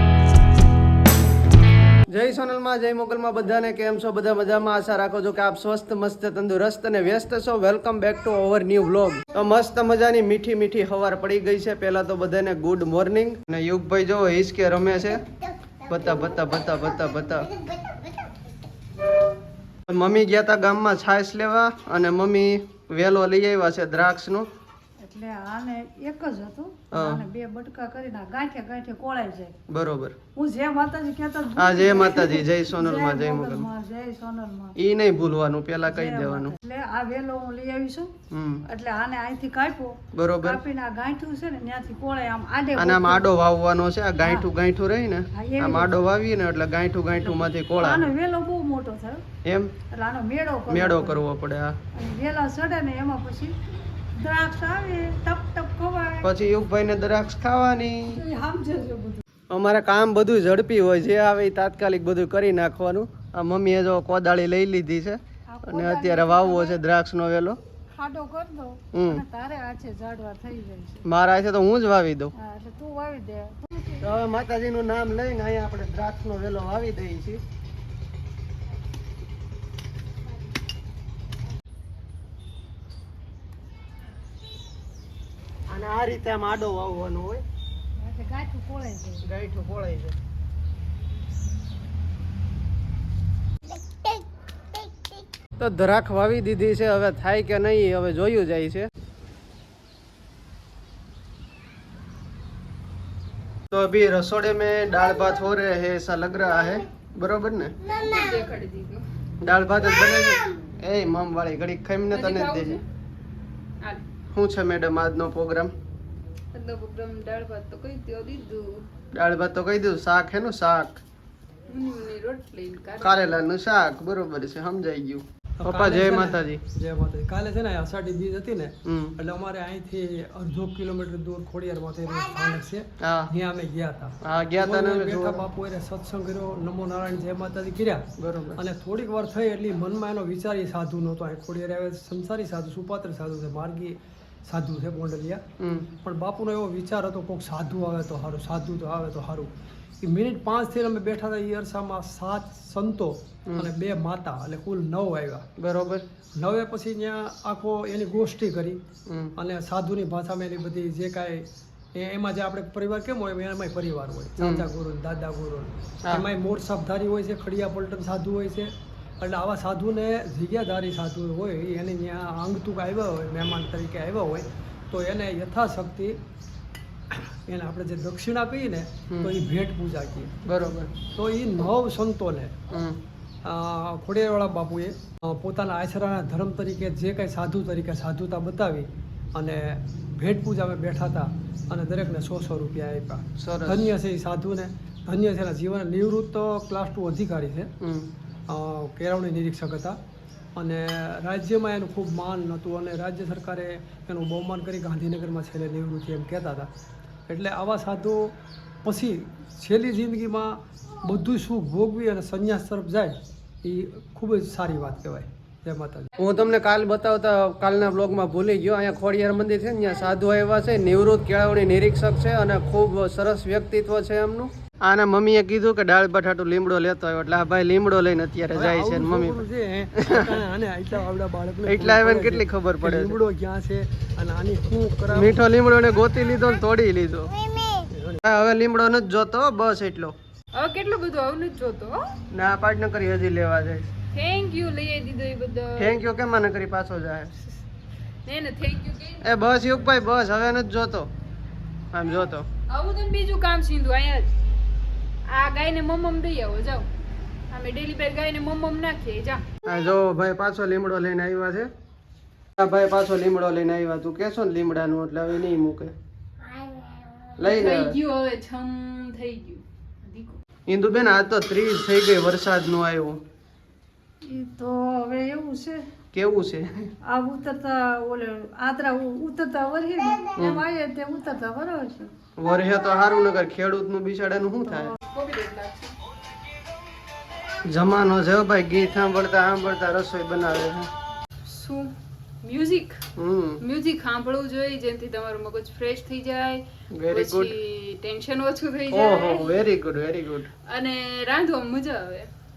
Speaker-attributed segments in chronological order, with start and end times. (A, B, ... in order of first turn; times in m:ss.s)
0:02.1-0:15.2 A
0:15.8-0:17.5 A
0:19.9-0:24.4 A
0:25.0-0:29.5 B
0:26.9-0:27.2 A
0:29.7-0:30.2 A
0:30.4-0:34.8 B
0:31.6-0:33.7 A
0:34.8-0:36.6 A
0:35.8-0:38.1 B
0:38.3-0:38.6 A
0:38.6-0:43.2 B
0:40.1-0:40.6 A
0:42.8-0:48.1 A
0:45.3-0:45.9 B
0:47.2-0:49.2 B
0:49.4-0:49.7 A
0:49.9-0:51.2 B
0:50.7-0:51.8 A
0:51.9-0:53.5 B
0:54.2-0:56.2 B
0:56.2-0:58.2 A
0:58.1-0:59.2 B
0:59.5-1:07.6 A
1:05.5-1:06.8 B
1:07.9-1:11.0 B
1:08.9-1:09.2 A
1:11.0-1:12.3 A
1:12.4-1:14.1 B
1:14.0-1:17.4 A
1:25.7-1:27.4 A
1:28.0-1:29.2 B
1:29.2-1:30.1 A
1:35.6-1:38.9 A
1:43.7-1:47.7 A
1:47.8-1:49.0 C
1:49.4-1:52.8 A
1:52.1-1:52.8 C
1:54.3-1:55.7 A
1:56.5-1:58.8 C
1:59.1-2:01.0 A
2:01.7-2:03.3 C
2:03.0-2:06.6 A
2:05.6-2:25.4 D
2:08.8-2:09.1 A
2:13.0-2:13.3 A
2:14.2-2:15.4 A
2:18.2-2:18.6 A
2:25.6-2:25.9 A
2:26.0-2:35.4 D
2:35.6-2:36.0 A
2:36.4-2:38.8 D
2:39.1-2:39.3 A
2:39.4-2:56.2 D
2:44.4-2:44.6 A
2:57.1-3:00.3 D
3:00.4-3:00.9 A
3:01.1-3:02.6 D
3:02.7-3:03.0 A
3:03.4-3:17.7 D
3:13.4-3:13.9 A
3:17.8-3:18.1 A
3:18.5-3:20.0 D
3:20.6-3:26.7 D
3:27.3-3:36.1 D
3:36.2-3:49.4 A
3:48.5-3:55.4 D
3:51.6-3:53.2 A
3:55.1-3:57.3 A
3:57.9-3:58.2 D
3:58.2-4:00.1 A
4:00.5-4:02.0 C
4:02.3-4:03.9 A
4:04.1-4:05.9 C
4:05.8-4:07.3 A
4:08.2-4:09.2 C
4:09.2-4:11.1 A
4:11.9-4:12.4 A
4:12.7-4:14.3 C
4:15.3-4:16.9 C
4:17.5-4:19.4 C
4:19.6-4:21.7 A
4:22.6-4:25.9 A
4:26.7-4:27.0 B
4:27.4-4:27.9 A
4:27.4-4:30.4 C
4:30.7-4:33.2 A
4:34.2-4:35.8 B
4:36.1-4:36.9 A
4:37.1-4:42.1 B
4:40.4-4:40.6 A
4:42.4-4:44.9 A
4:44.6-4:44.9 B
4:45.0-4:45.9 C
4:47.7-4:50.9 A
4:51.5-4:53.0 C
4:53.2-4:53.6 A
4:53.6-4:59.6 C
4:56.9-4:57.5 A
4:58.9-5:00.5 A
5:00.7-5:02.3 C